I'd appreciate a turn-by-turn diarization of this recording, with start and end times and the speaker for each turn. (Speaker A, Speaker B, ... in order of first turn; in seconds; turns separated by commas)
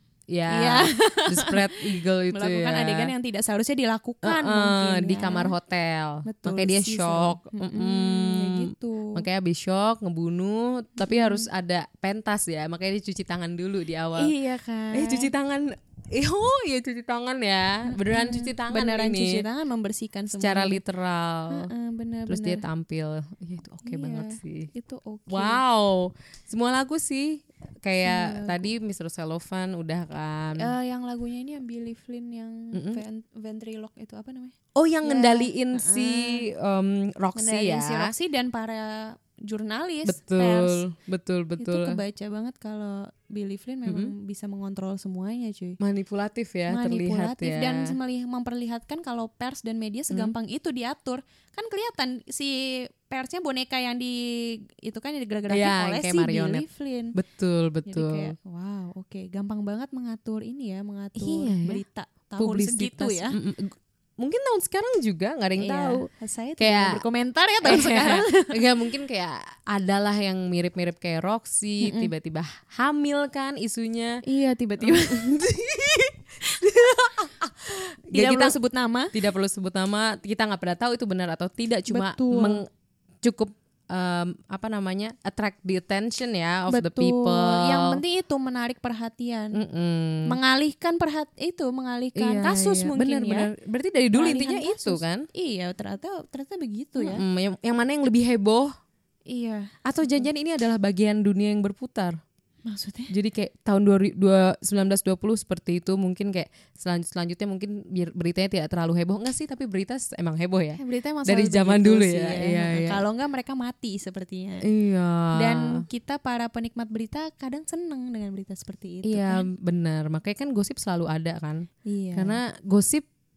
Speaker A: 0.3-3.1, Speaker B: 0.5-1.7, Speaker B: 2.3-5.5, Speaker A: 4.2-14.3, Speaker B: 6.2-9.2, Speaker B: 11.0-11.5, Speaker B: 14.2-15.3, Speaker A: 14.9-19.4, Speaker B: 17.9-20.8, Speaker A: 20.3-21.7, Speaker B: 21.5-22.6, Speaker A: 22.3-24.7, Speaker B: 23.8-25.6, Speaker A: 25.3-30.7, Speaker B: 28.0-28.7, Speaker B: 30.6-36.4, Speaker A: 32.7-33.0, Speaker A: 34.8-38.1, Speaker B: 37.4-40.8, Speaker A: 40.0-42.0, Speaker B: 41.6-45.8, Speaker A: 43.9-44.1, Speaker A: 45.8-48.0, Speaker B: 46.7-57.1, Speaker A: 55.5-56.6, Speaker A: 57.1-58.3, Speaker B: 57.9-63.3, Speaker A: 61.1-61.8, Speaker A: 62.4-66.1, Speaker B: 65.6-68.6, Speaker A: 66.6-67.0, Speaker A: 67.6-74.2, Speaker B: 71.8-72.1, Speaker B: 74.2-75.3, Speaker A: 74.8-78.5, Speaker B: 76.5-76.8, Speaker B: 78.1-79.1, Speaker A: 79.1-82.7, Speaker B: 81.9-82.6, Speaker A: 83.2-88.0, Speaker B: 86.7-89.6, Speaker A: 89.5-90.3, Speaker B: 90.2-93.5, Speaker A: 92.2-95.2, Speaker B: 94.1-97.2, Speaker A: 97.0-98.7, Speaker B: 99.3-100.3, Speaker A: 99.8-102.2, Speaker B: 102.6-103.1, Speaker A: 103.1-113.0, Speaker B: 110.8-114.7, Speaker A: 114.6-115.8, Speaker B: 115.3-119.5, Speaker A: 119.0-123.0, Speaker B: 121.8-122.4